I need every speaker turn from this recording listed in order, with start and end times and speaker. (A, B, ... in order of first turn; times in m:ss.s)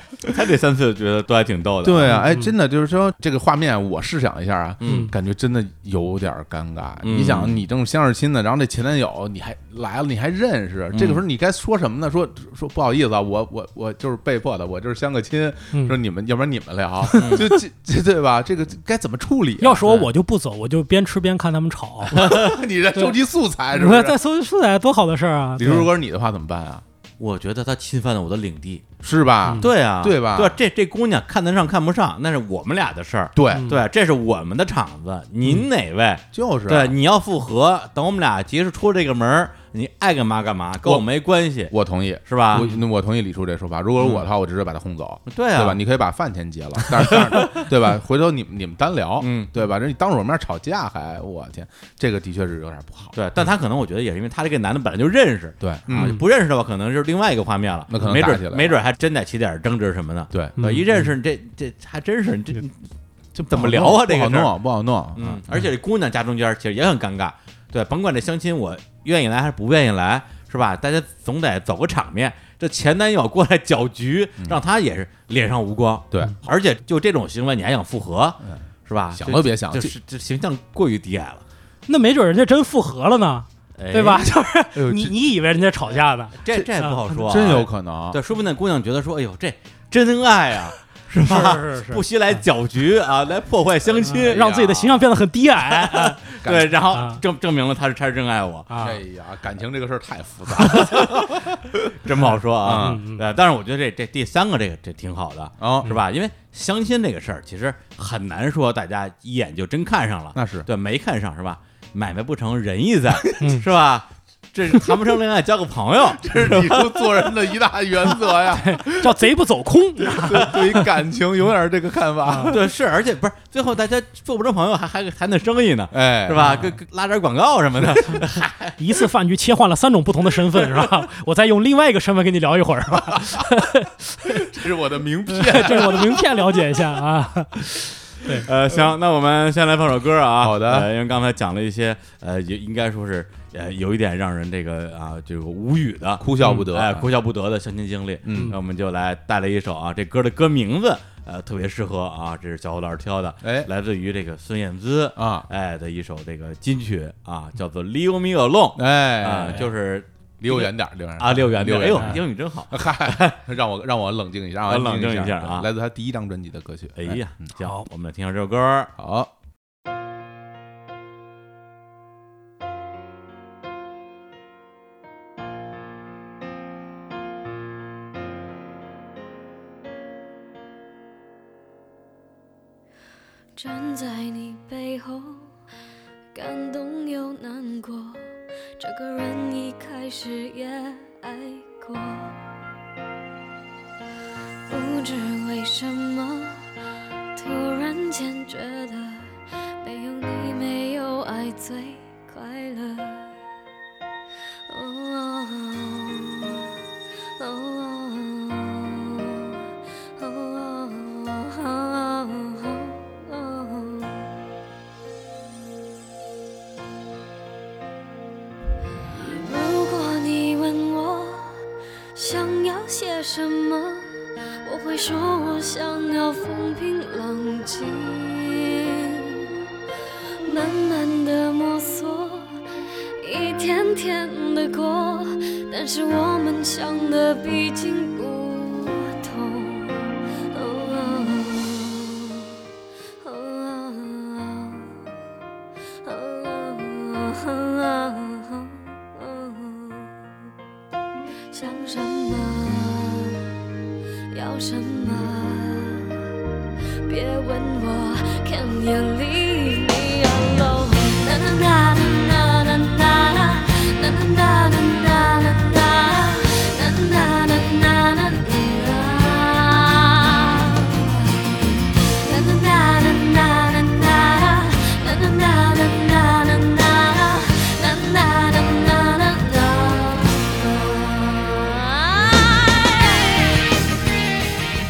0:00.2-0:02.2 A
0:01.8-0:19.9 B
0:02.1-0:02.5 C
0:04.8-0:05.1 A
0:04.8-0:05.1 C
0:07.0-0:07.6 A
0:10.9-0:11.2 A
0:17.1-0:17.6 C
0:19.6-0:22.2 C
0:22.1-0:24.2 B
0:22.2-0:22.6 A
0:23.7-0:25.9 C
0:25.6-0:26.8 B
0:27.2-0:28.9 A
0:29.0-0:30.6 B
0:29.6-0:41.8 A
0:33.4-0:33.8 B
0:33.5-0:33.8 C
0:36.3-0:37.0 B
0:41.7-0:53.2 B
0:42.3-0:42.7 A
0:44.0-0:44.2 A
0:45.3-0:45.8 A
0:47.0-0:47.6 A
0:49.2-0:49.5 A
0:53.2-1:02.8 A
0:55.6-0:56.2 B
0:57.9-0:58.8 B
1:00.3-1:01.0 B
1:00.6-1:00.8 C
1:03.4-1:04.5 A
1:03.5-1:05.7 B
1:05.2-1:21.4 A
1:16.1-1:16.4 B
1:19.2-1:19.9 B
1:21.9-1:27.3 C
1:23.8-1:24.3 A
1:24.7-1:25.2 B
1:26.4-1:35.0 A
1:26.5-1:28.2 B
1:31.2-1:32.0 C
1:34.1-1:36.2 C
1:34.3-1:34.8 B
1:35.7-1:38.7 A
1:36.4-1:36.7 B
1:36.9-1:37.2 C
1:38.7-1:39.0 C
1:38.8-1:41.9 B
1:40.7-1:41.3 A
1:42.0-1:57.3 A
1:42.6-1:43.0 B
1:42.7-1:43.2 C
1:45.6-1:46.0 B
1:50.4-1:50.7 B
1:53.2-1:53.5 B
1:53.4-1:53.6 C
1:56.2-1:59.1 B
1:58.5-2:00.8 C
2:00.0-2:02.6 B
2:02.3-2:02.5 C
2:02.4-2:08.8 A
2:05.9-2:06.8 B
2:06.4-2:06.7 C
2:07.8-2:08.1 B
2:08.8-2:14.4 C
2:14.2-2:16.2 B
2:15.3-2:18.5 C
2:18.4-2:43.4 A
2:20.4-2:20.9 B
2:26.2-2:27.1 B
2:28.2-2:28.6 B
2:33.4-2:33.7 B
2:35.2-2:35.5 B
2:38.8-2:39.7 B
2:40.4-2:47.2 B
2:44.7-2:45.7 A
2:47.0-2:48.9 A
2:49.0-2:49.3 B
3:03.6-3:05.4 D
3:06.4-3:08.1 D
3:08.8-3:12.3 D
3:14.7-3:16.5 D
3:17.4-3:19.2 D
3:19.8-3:23.2 D
3:24.8-3:26.6 D
3:27.4-3:29.1 D
3:30.2-3:34.2 D
3:39.2-3:41.5 D
3:42.2-3:44.0 D
3:44.7-3:49.4 D
3:50.5-3:52.5 D
3:53.2-4:00.0 D
4:00.6-4:02.4 D
4:03.2-4:04.8 D
4:06.1-4:10.1 D
4:11.5-4:13.5 D
4:14.3-4:16.2 D
4:17.1-4:31.3 D
4:32.2-4:43.2 D